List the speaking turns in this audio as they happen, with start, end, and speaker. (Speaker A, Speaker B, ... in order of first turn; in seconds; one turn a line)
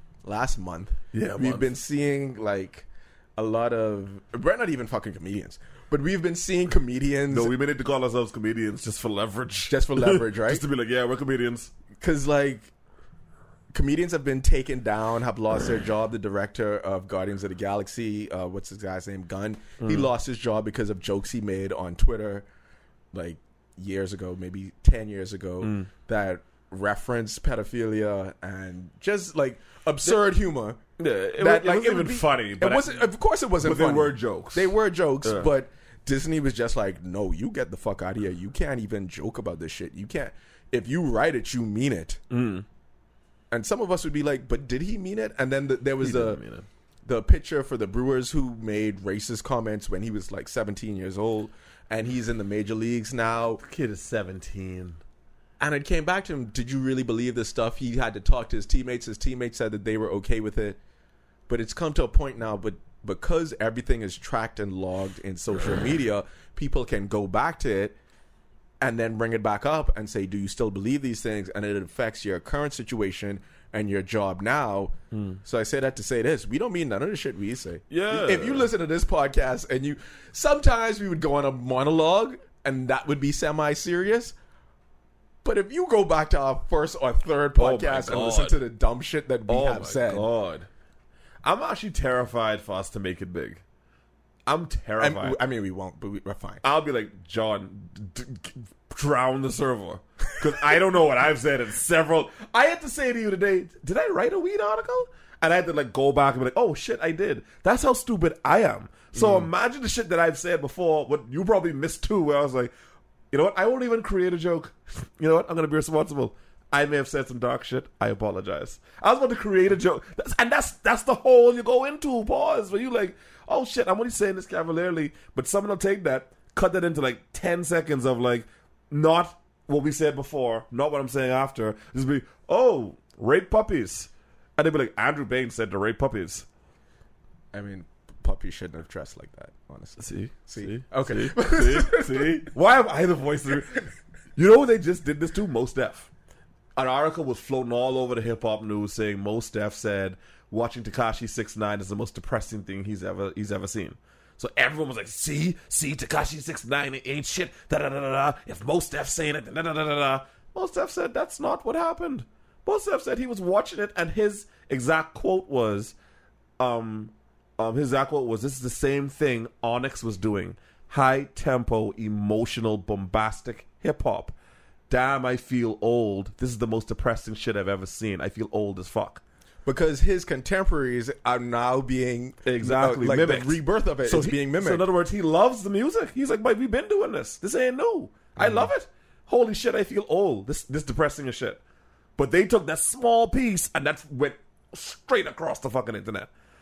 Speaker A: 0.2-7.5
Speaker B: 1.1-1.7
Speaker B: 7.3-11.7
Speaker A: 9.7-10.6
Speaker A: 12.0-12.7
Speaker A: 13.7-22.5
Speaker B: 19.8-20.1
Speaker A: 23.1-30.8
Speaker B: 25.6-25.9
Speaker B: 31.0-35.5
Speaker A: 31.4-42.2
Speaker B: 42.3-42.7
Speaker A: 43.5-46.4
Speaker B: 46.0-46.7
Speaker A: 47.0-53.6
Speaker B: 53.6-55.0
Speaker A: 55.6-60.8
Speaker A: 61.5-68.0
Speaker A: 68.8-84.3
Speaker B: 75.1-75.4
Speaker B: 77.9-78.7
Speaker A: 85.4-90.3
Speaker B: 87.6-88.6
Speaker B: 89.5-90.7
Speaker B: 91.4-93.6
Speaker B: 94.5-95.4
Speaker A: 95.0-96.6
Speaker B: 96.6-112.7
Speaker A: 109.2-109.5
Speaker B: 113.3-136.5
Speaker A: 137.5-142.5
Speaker B: 140.0-146.1
Speaker B: 146.8-166.0
Speaker B: 166.6-174.3
Speaker B: 174.9-179.2
Speaker A: 179.7-184.8
Speaker B: 182.4-191.6
Speaker A: 188.4-188.7
Speaker B: 192.2-196.3